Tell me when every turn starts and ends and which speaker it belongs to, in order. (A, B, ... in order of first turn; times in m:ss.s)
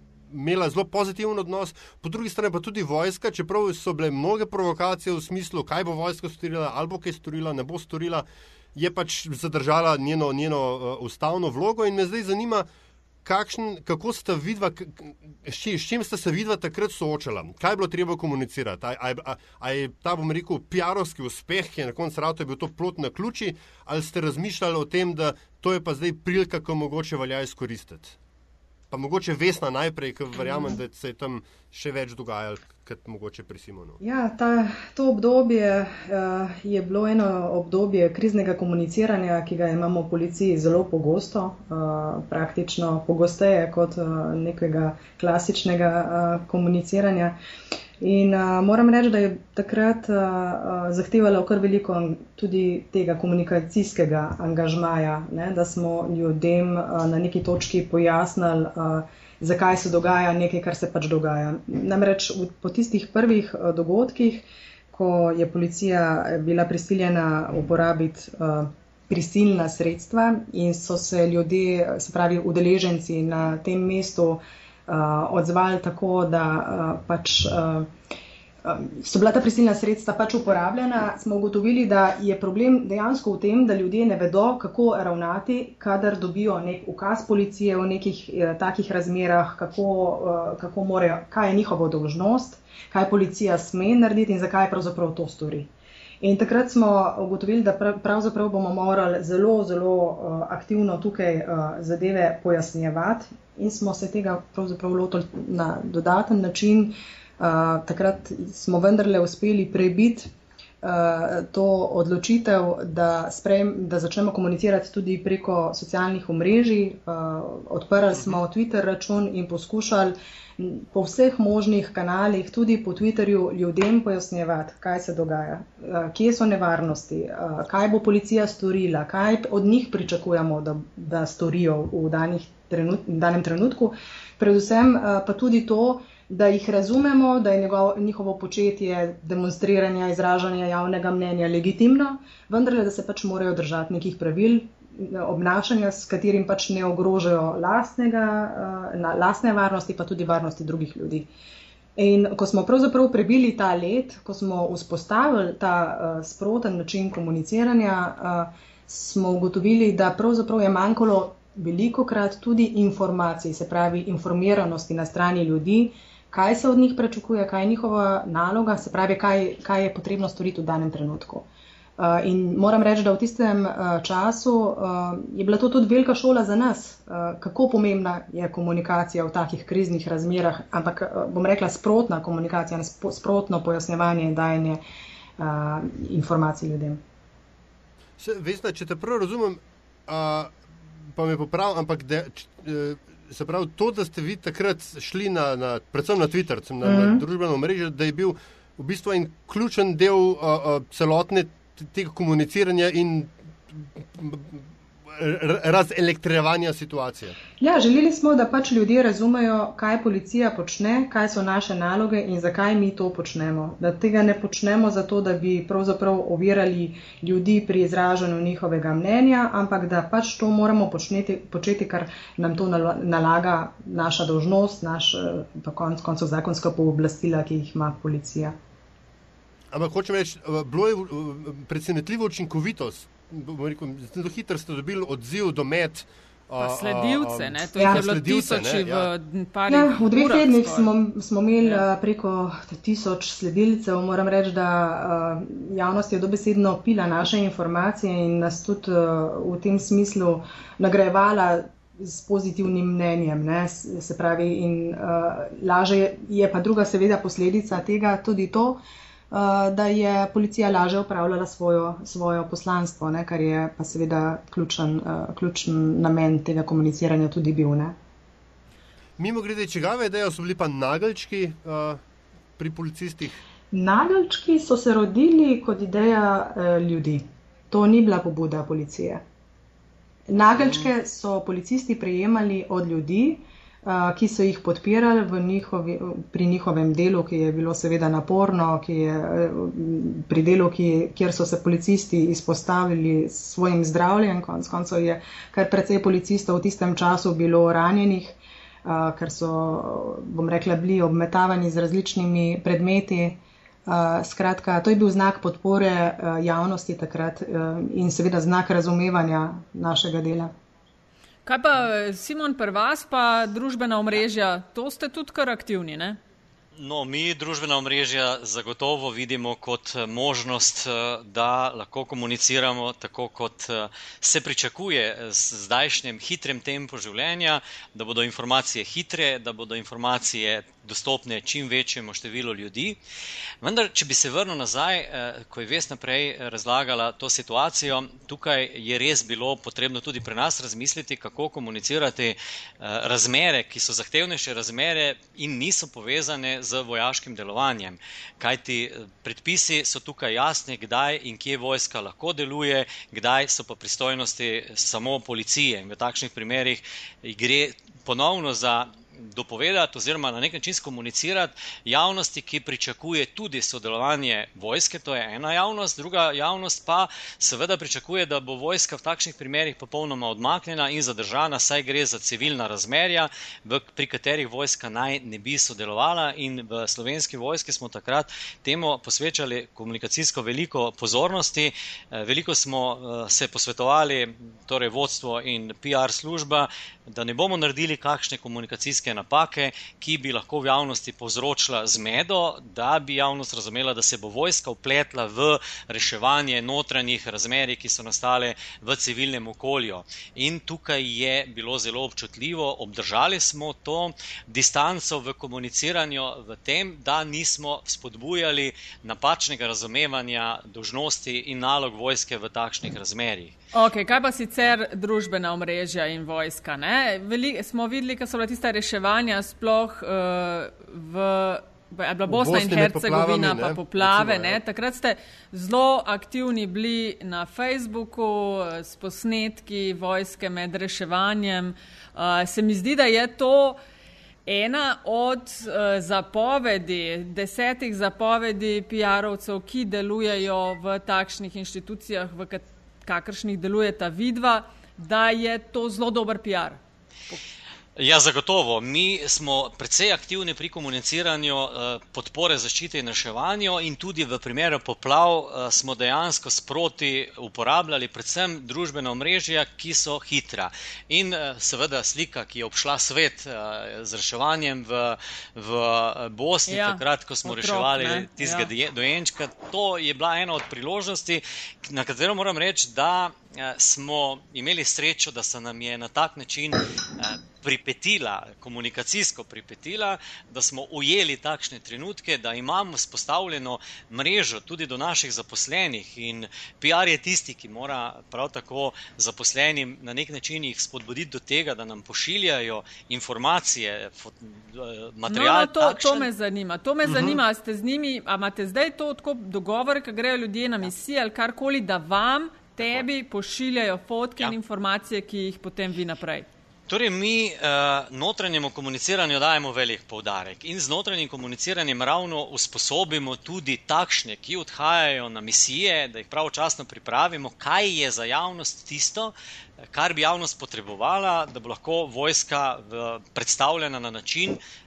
0:00.3-0:12.6 A
0:13.2-0:28.2 A
0:28.9-0:34.0 A
0:34.0-0:47.4 B
0:48.0-1:17.9 B
1:18.6-1:35.7 B
1:36.2-1:50.3 B
1:50.8-2:31.3 B
1:58.1-1:58.4 A
2:32.0-2:51.5 B
2:52.0-3:04.8 B
3:05.4-3:07.0 B
3:08.2-3:27.4 A
3:16.8-3:17.2 B
3:27.6-3:48.5 B
3:49.7-3:59.1 A
3:56.6-4:00.9 C
3:57.8-3:58.0 B
3:59.7-4:28.0 B
4:29.2-4:32.0 A
4:32.6-4:33.4 A
4:33.7-4:39.2 B
4:40.3-5:10.5 B
4:40.6-4:40.8 A
5:11.4-5:16.2 C
5:16.7-5:33.0 D
5:33.6-6:53.6 D
6:53.7-7:13.8 C
7:02.3-7:04.6 A
7:14.4-7:26.8 C
7:28.0-8:16.3 D
7:46.7-7:48.7 C
8:15.3-8:26.5 C
8:26.9-8:39.3 D
8:39.9-8:44.6 D